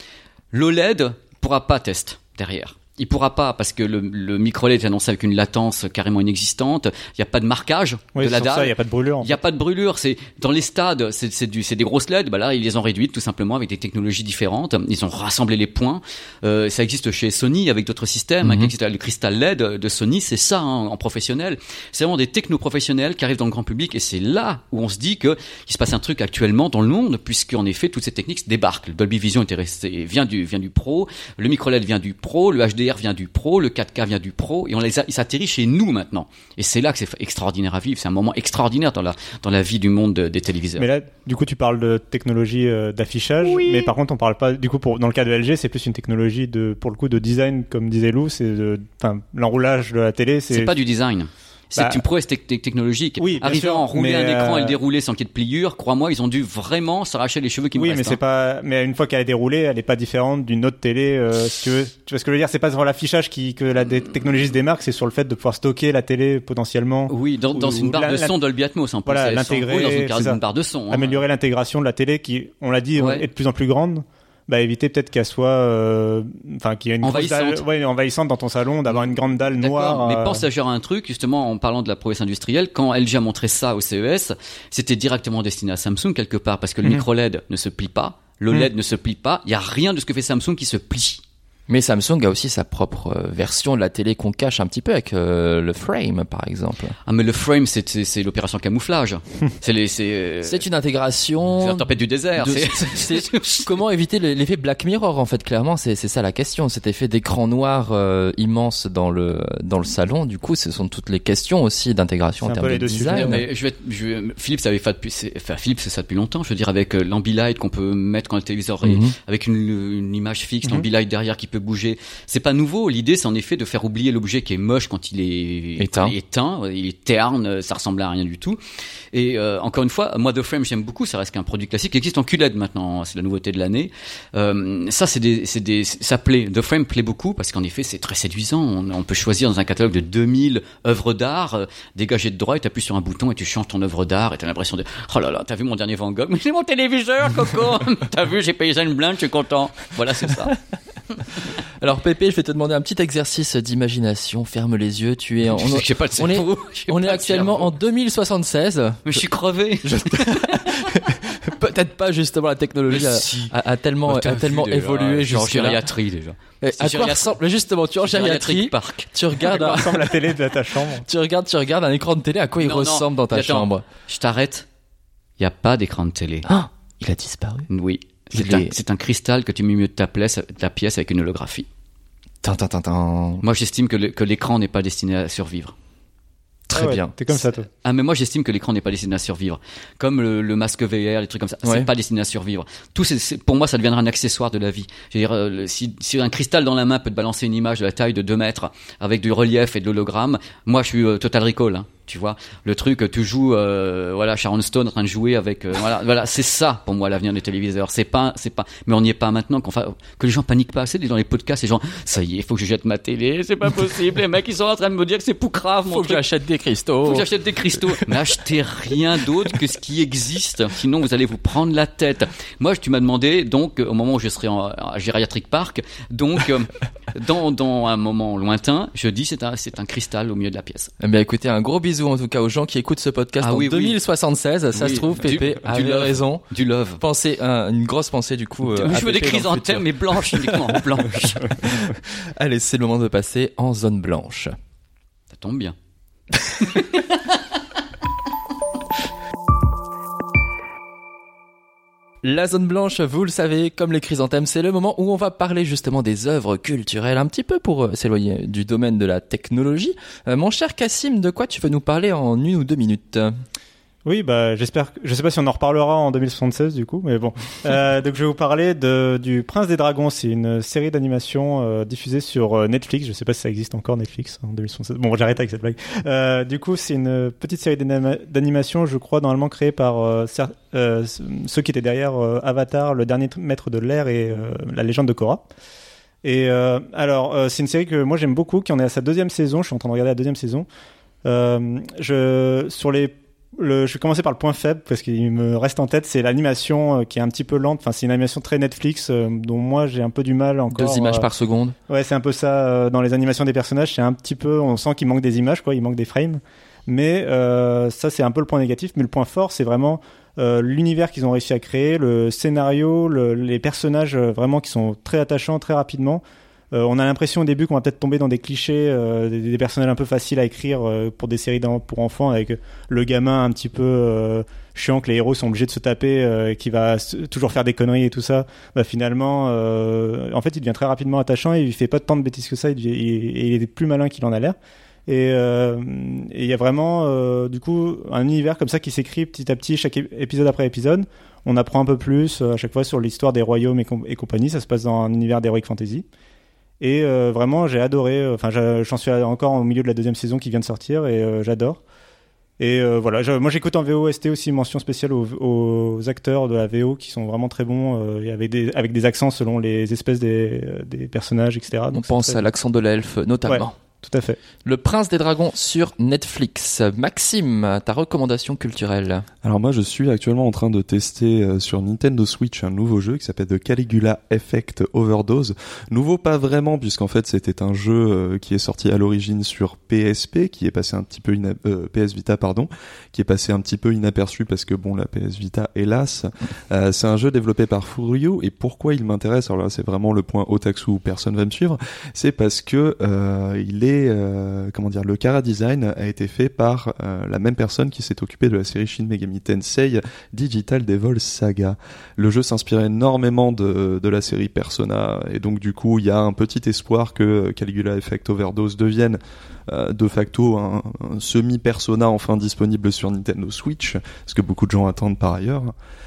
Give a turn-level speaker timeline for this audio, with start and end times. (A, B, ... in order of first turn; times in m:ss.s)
0:00.5-0:40.9 A
0:08.2-0:09.4 B
0:18.4-0:18.7 C
0:40.8-0:50.7 B
0:43.4-0:43.9 A
0:50.5-0:58.2 A
0:53.2-0:54.8 B
0:57.8-1:08.3 B
1:07.1-1:11.2 A
1:09.1-1:10.4 B
1:10.9-1:20.4 B
1:13.0-1:13.2 A
1:17.0-1:17.6 A
1:18.9-1:31.2 A
1:31.7-1:37.0 C
1:37.1-1:40.6 A
1:40.4-1:41.8 C
1:41.5-1:43.7 A
1:42.4-1:53.4 C
1:52.4-1:53.4 B
1:53.1-2:08.6 A
1:58.8-1:59.1 C
2:05.8-2:06.1 C
2:09.1-2:30.6 A
2:31.8-2:39.2 C
2:35.5-2:37.7 A
2:39.1-2:40.8 A
2:39.8-2:45.8 C
2:42.9-2:47.4 A
2:46.6-2:50.1 C
2:48.0-2:49.1 A
2:49.4-2:51.1 B
2:51.1-2:53.8 C
2:52.6-2:54.7 A
2:55.4-2:56.5 A
2:56.5-2:57.7 C
2:57.7-3:01.7 A
2:58.4-2:58.7 C
3:02.4-3:03.4 C
3:03.4-3:05.8 A
3:06.7-3:07.1 C
3:06.7-3:07.7 B
3:07.8-3:36.2 A
3:35.9-3:38.0 C
3:37.0-3:50.9 A
3:51.0-3:56.4 C
3:53.4-3:54.0 A
3:54.7-3:57.0 A
3:57.0-4:04.5 C
3:58.6-4:01.5 A
4:05.3-4:05.8 A
4:06.4-4:07.2 A
4:12.2-4:23.3 C
4:24.0-4:45.4 B
4:46.2-4:50.7 B
4:51.2-5:01.3 B
5:00.7-5:01.8 C
5:01.9-5:16.2 B
5:16.7-5:46.0 B
5:46.8-5:51.8 B
5:52.6-6:02.4 B
6:01.9-6:03.8 C
6:03.5-6:04.4 B
6:04.6-6:09.2 C
6:09.4-6:55.7 D